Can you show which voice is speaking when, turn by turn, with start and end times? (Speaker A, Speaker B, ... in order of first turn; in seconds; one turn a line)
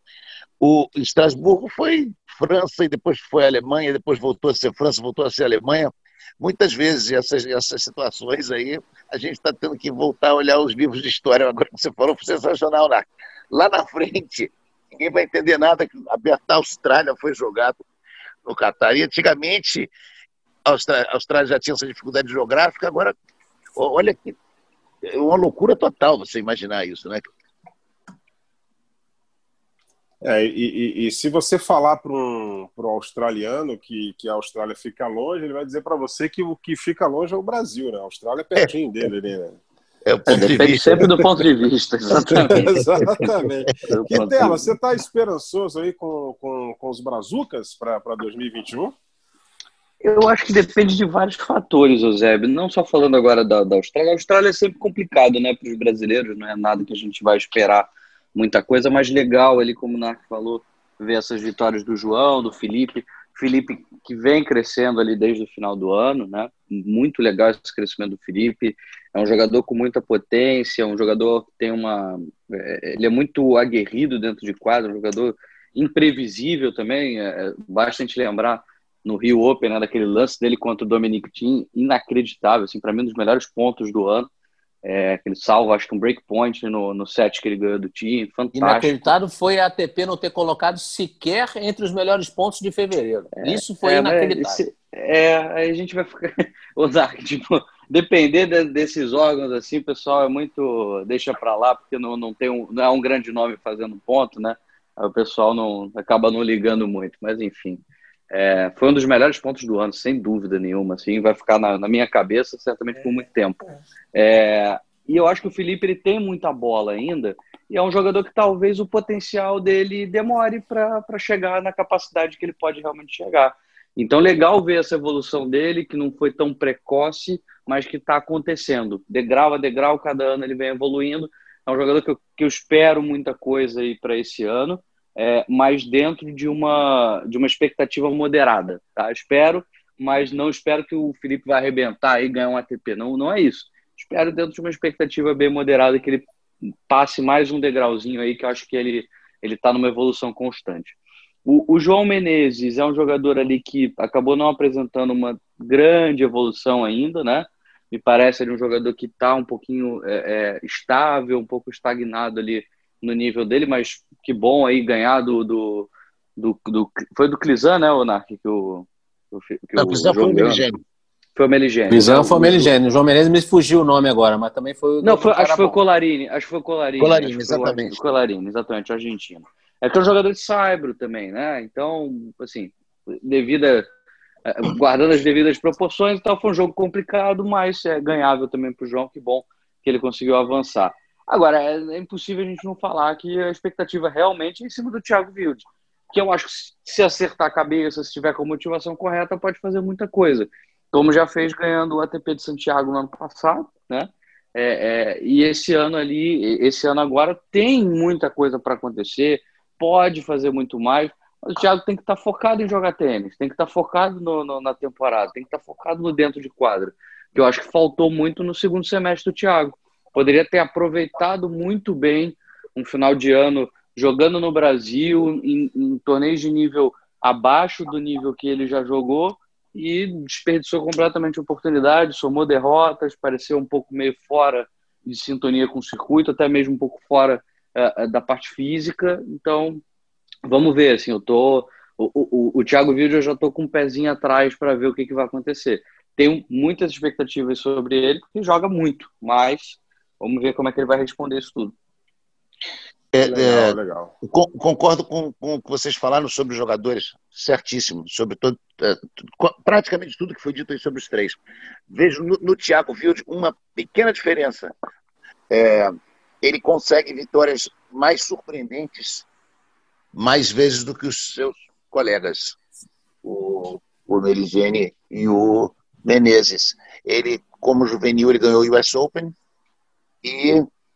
Speaker A: 0.6-17.8
Speaker A: 18.5-19.9
Speaker A: 20.7-23.2
Speaker A: 23.8-24.4
Speaker A: 25.0-27.2
Speaker B: 30.2-39.6
Speaker A: 40.0-41.1
Speaker B: 40.3-41.1
Speaker C: 40.4-43.3
Speaker B: 42.2-48.9
Speaker A: 42.6-43.0
Speaker C: 43.9-44.7
Speaker C: 50.0-84.3
Speaker C: 84.8-89.1
Speaker D: 88.5-94.6
Speaker C: 93.4-113.6
Speaker C: 114.1-146.3
Speaker C: 146.9-170.7
Speaker A: 169.8-170.8
Speaker C: 171.4-172.7
Speaker D: 171.9-175.8
Speaker C: 175.0-183.9
Speaker A: 177.0-178.0
Speaker C: 184.5-239.8
Speaker C: 240.5-251.7
Speaker A: 253.1-261.4
Speaker B: 253.2-254.1
Speaker A: 261.9-264.7
Speaker A: 265.5-269.3
Speaker A: 270.1-272.6
Speaker A: 273.2-279.4
Speaker A: 280.2-280.7